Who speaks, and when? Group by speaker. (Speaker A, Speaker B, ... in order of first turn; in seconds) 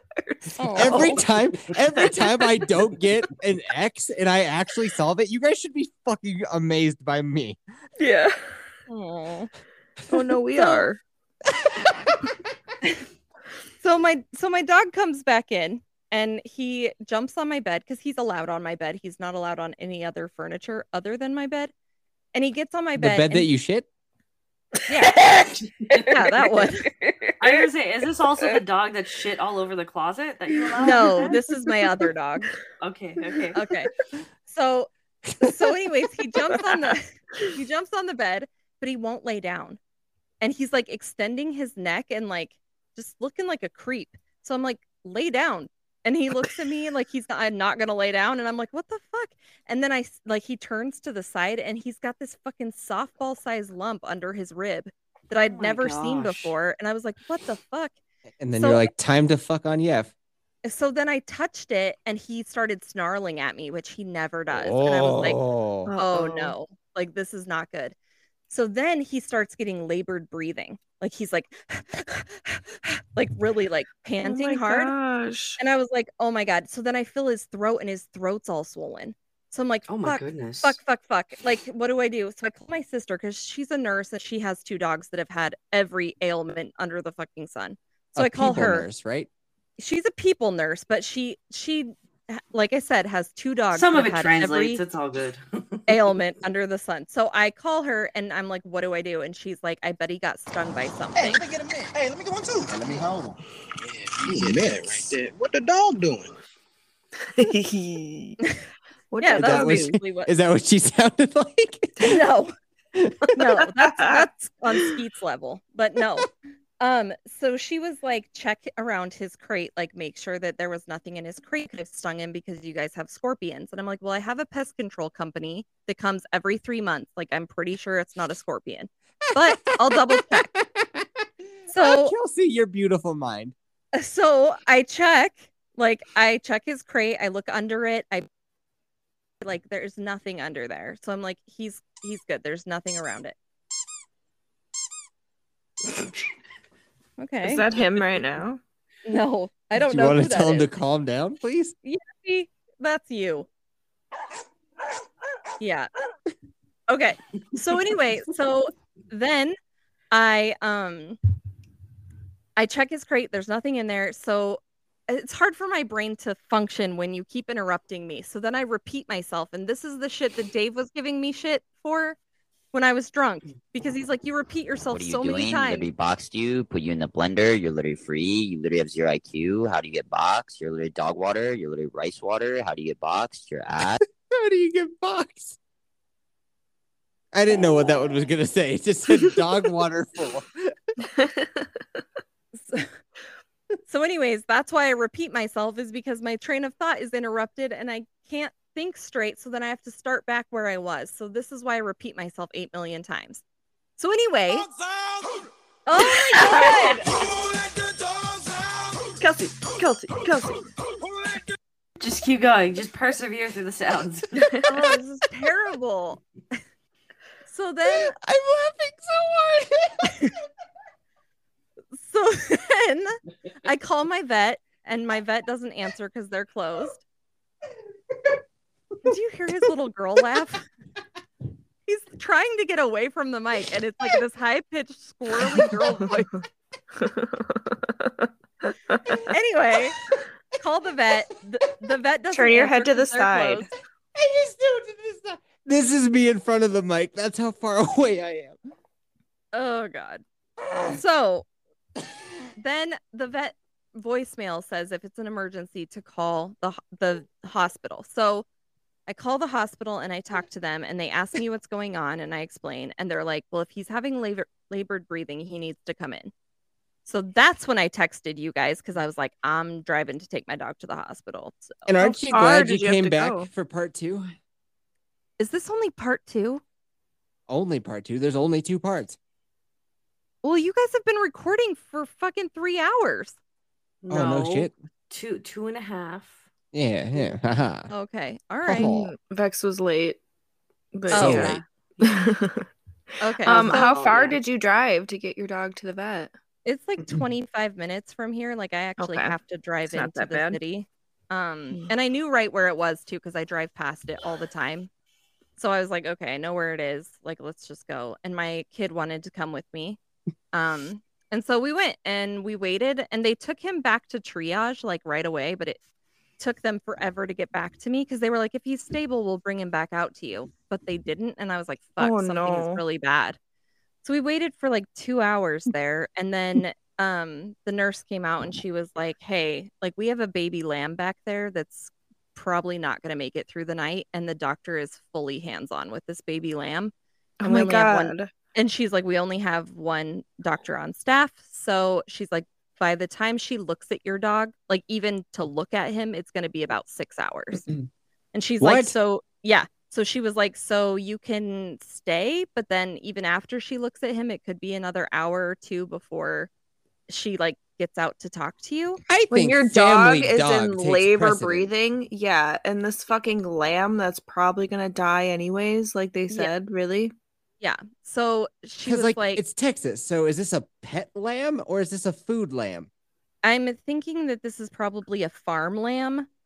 Speaker A: 0.2-1.3, 2.0-2.5, 8.0-8.6, 10.1-11.0, 25.1-27.7, 30.6-31.4, 65.8-66.5, 74.2-75.6, 107.3-108.4, 109.1-110.0, 113.4-114.8, 147.4-148.6, 191.1-191.5, 206.2-207.0, 209.2-210.6, 237.0-239.2, 242.3-243.7, 272.0-273.5, 288.7-290.2, 290.9-292.7, 293.4-296.3, 299.0-299.3, 299.9-300.6, 322.0-322.8, 337.4-338.3, 359.3-367.1
Speaker B: 0.6-1.1, 8.9-9.5, 10.5-10.9, 13.8-21.7, 22.3-23.5, 24.9-25.2, 26.0-26.9, 30.8-32.5, 33.5-33.9, 34.5-39.8, 40.4-57.9, 58.5-58.9, 60.6-65.4, 66.0-67.9, 68.5-74.9, 75.6-88.9, 89.8-94.8, 95.9-101.4, 109.2-110.3, 112.0-112.5, 113.3-116.3, 116.8-130.5, 131.7-132.1, 133.9-138.3, 139.4-143.3, 147.2-147.6, 149.1-150.7, 151.8-153.5, 155.6-155.9, 156.9-159.6, 160.1-161.2, 162.6-172.2, 172.7-175.9, 192.6-192.9, 193.9-203.4, 204.0-204.7, 205.8-207.0, 214.7-216.2, 217.5-218.1, 221.9-223.1, 223.6-227.0, 229.0-230.7, 231.9-236.4, 239.2-239.9, 240.6-243.7, 249.5-250.2, 250.9-251.4, 252.6-258.4, 259.1-266.3, 267.1-271.9, 275.4-276.6, 280.4-283.4, 287.9-288.9, 291.1-291.6, 293.2-293.9, 296.6-304.9, 305.6-310.0, 310.5-315.8, 316.4-323.4, 324.0-336.9, 337.4-347.6, 348.3-356.5, 357.1-359.0, 367.6-369.4, 373.4-376.3
Speaker C: 0.8-7.6, 22.9-23.9, 58.4-60.1, 64.5-65.9, 88.2-89.3, 109.3-112.2, 129.4-133.5, 149.7-151.8, 184.3-185.6, 187.3-190.7, 217.9-220.1, 244.1-248.6, 250.7-251.0, 271.9-274.3, 277.5-279.2, 284.1-284.7, 286.7-287.9, 288.6-289.1, 291.1-291.6, 348.6-348.9, 359.1-361.7, 368.8-372.9
Speaker D: 27.4-31.4, 32.8-33.6, 55.4-56.5, 79.9-80.8, 93.7-95.9, 212.0-214.5, 284.0-286.4, 293.5-294.4
Speaker E: 101.2-103.4, 104.0-106.4
Speaker F: 174.9-184.0